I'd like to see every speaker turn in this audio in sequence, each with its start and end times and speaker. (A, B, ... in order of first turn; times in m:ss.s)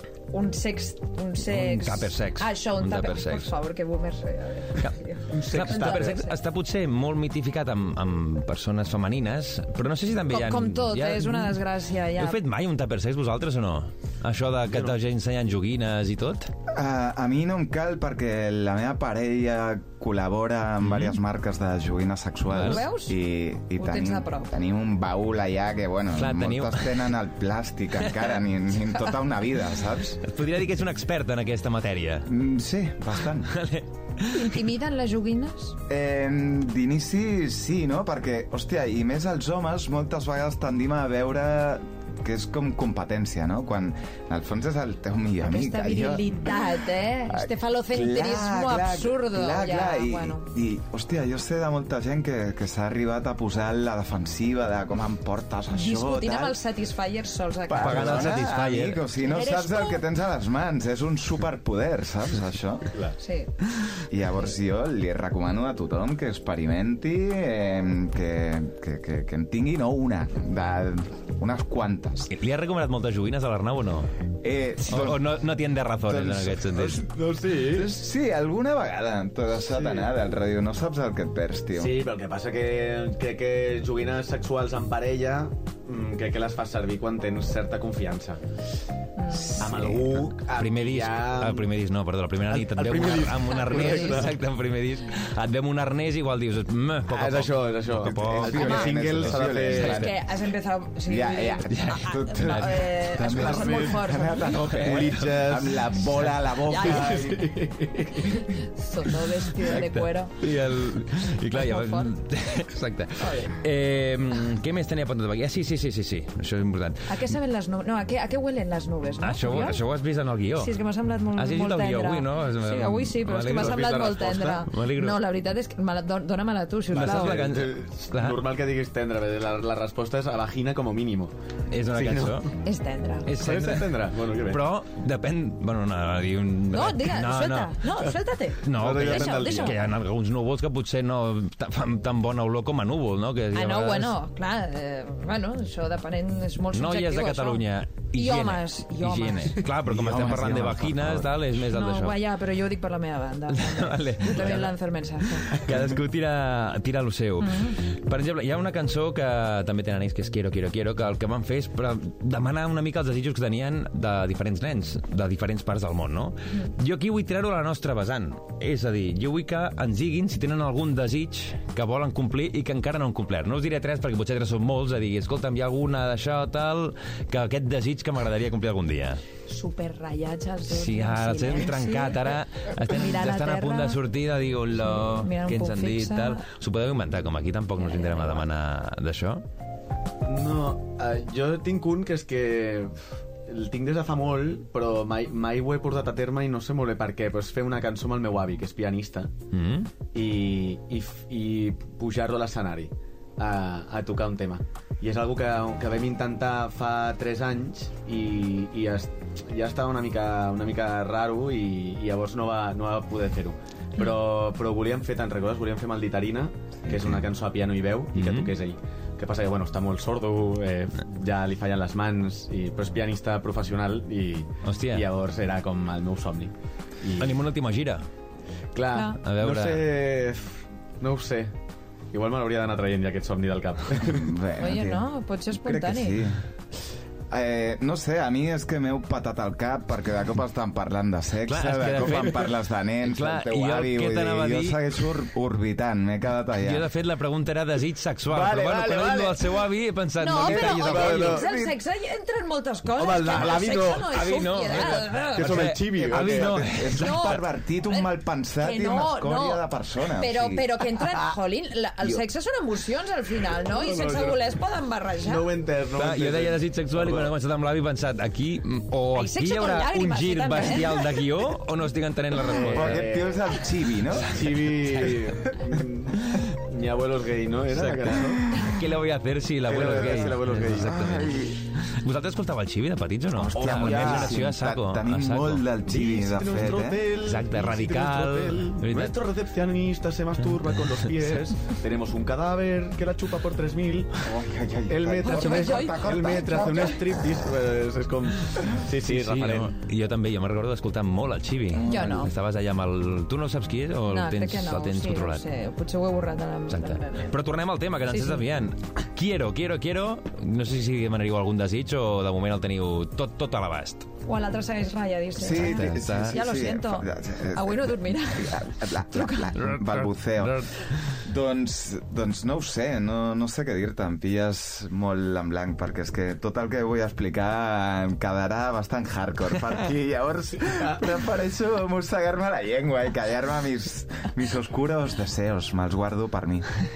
0:00.3-0:06.4 A
0:01.4-0:03.5 B
0:04.8-0:11.6 B
0:05.3-0:06.2 C
0:10.3-0:12.4 A
0:12.2-0:16.5 B
0:14.7-0:14.9 C
0:16.7-0:30.2 D
0:20.8-0:21.2 B
0:22.5-0:22.8 B
0:22.6-0:23.2 A
0:23.8-0:24.5 A
0:26.1-0:27.1 B
0:30.2-0:32.3 B
0:32.2-0:33.5 D
0:33.4-0:34.6 B
0:34.3-0:35.8 A
0:35.9-0:46.4 D
0:45.4-0:50.4 A
0:47.3-0:56.6 D
0:55.7-0:58.4 A
0:57.7-1:02.9 D
0:57.8-0:59.0 B
0:59.2-1:00.0 A
1:02.9-1:03.2 C
1:03.2-1:03.5 A
1:04.1-1:12.3 D
1:12.3-1:14.1 B
1:14.4-1:15.4 D
1:14.8-1:17.0 B
1:16.0-1:17.0 D
1:16.9-1:17.9 C
1:17.6-1:22.0 D
1:19.7-1:20.1 C
1:21.7-1:28.4 C
1:29.2-1:29.6 A
1:29.3-1:30.2 D
1:29.6-1:31.7 C
1:29.7-1:40.1 B
1:32.5-1:34.3 C
1:33.5-1:34.3 A
1:37.1-1:40.1 C
1:38.0-1:40.2 D
1:38.5-1:38.9 A
1:39.8-1:44.6 A
1:41.1-1:47.5 D
1:41.7-1:42.8 B
1:43.2-1:46.0 C
1:44.5-1:45.3 B
1:46.6-1:47.2 A
1:46.7-1:48.4 C
1:48.2-1:50.4 A
1:49.6-1:57.2 B
1:51.5-1:52.1 A
1:53.2-1:53.5 A
1:57.1-1:59.8 A
1:59.2-2:00.7 B
2:00.6-2:07.5 A
2:01.3-2:05.2 B
2:03.5-2:04.6 C
2:06.9-2:08.4 B
2:06.9-2:11.3 C
2:11.7-2:12.5 B
2:11.9-2:12.4 C
2:12.6-2:13.3 A
2:13.2-2:17.9 B
2:13.3-2:14.6 C
2:16.7-2:19.9 A
2:18.6-2:24.2 B
2:18.7-2:19.9 C
2:23.5-2:29.6 A
2:26.7-2:32.2 B
2:29.8-2:31.3 D
2:31.7-2:35.6 A
2:33.5-2:34.8 B
2:35.4-2:59.2 B
2:37.4-2:37.8 A
2:59.5-3:04.0 A
3:00.7-3:09.4 B
3:04.8-3:06.4 A
3:07.8-3:08.4 A
3:10.2-3:12.9 C
3:13.5-3:19.3 C
3:19.5-3:19.9 B
3:20.1-3:47.4 C
3:38.1-3:38.5 B
3:44.6-3:45.0 B
3:47.2-3:48.0 B
3:48.7-3:51.5 C
3:48.9-3:49.2 A
3:49.2-3:50.0 B
3:52.1-3:54.3 C
3:54.0-3:56.4 D
3:54.6-3:56.2 A
3:57.3-4:06.9 D
4:01.5-4:05.1 B
4:06.6-4:11.4 B
4:08.3-4:09.6 D
4:10.2-4:15.7 A
4:10.4-4:11.7 D
4:10.5-4:11.4 C
4:13.0-4:16.6 C
4:13.3-4:17.4 B
4:15.9-4:20.6 D
4:16.9-4:19.6 A
4:20.2-4:25.5 A
4:23.6-4:24.4 C
4:25.2-4:27.3 C
4:26.0-4:33.1 B
4:29.1-4:31.2 A
4:32.4-4:33.6 C
4:32.6-4:34.4 D
4:34.1-4:35.3 B
4:34.1-4:38.5 C
4:37.7-4:45.6 B
4:38.4-4:38.8 D
4:39.6-4:41.0 C
4:40.7-4:41.7 D
4:43.3-4:47.1 D
4:43.5-4:44.4 C
4:45.8-4:54.3 C
4:47.2-4:49.2 B
4:50.9-4:51.5 B
4:54.2-4:57.1 D
4:54.9-4:59.7 C
4:55.2-4:57.0 A
4:59.0-5:05.4 B
5:01.7-5:02.3 D
5:01.8-5:02.3 A
5:04.1-5:07.3 A
5:06.7-5:14.1 B
5:08.1-5:08.4 A
5:14.2-5:19.5 A
5:15.4-5:36.8 D
5:15.5-5:16.4 B
5:19.5-5:21.2 B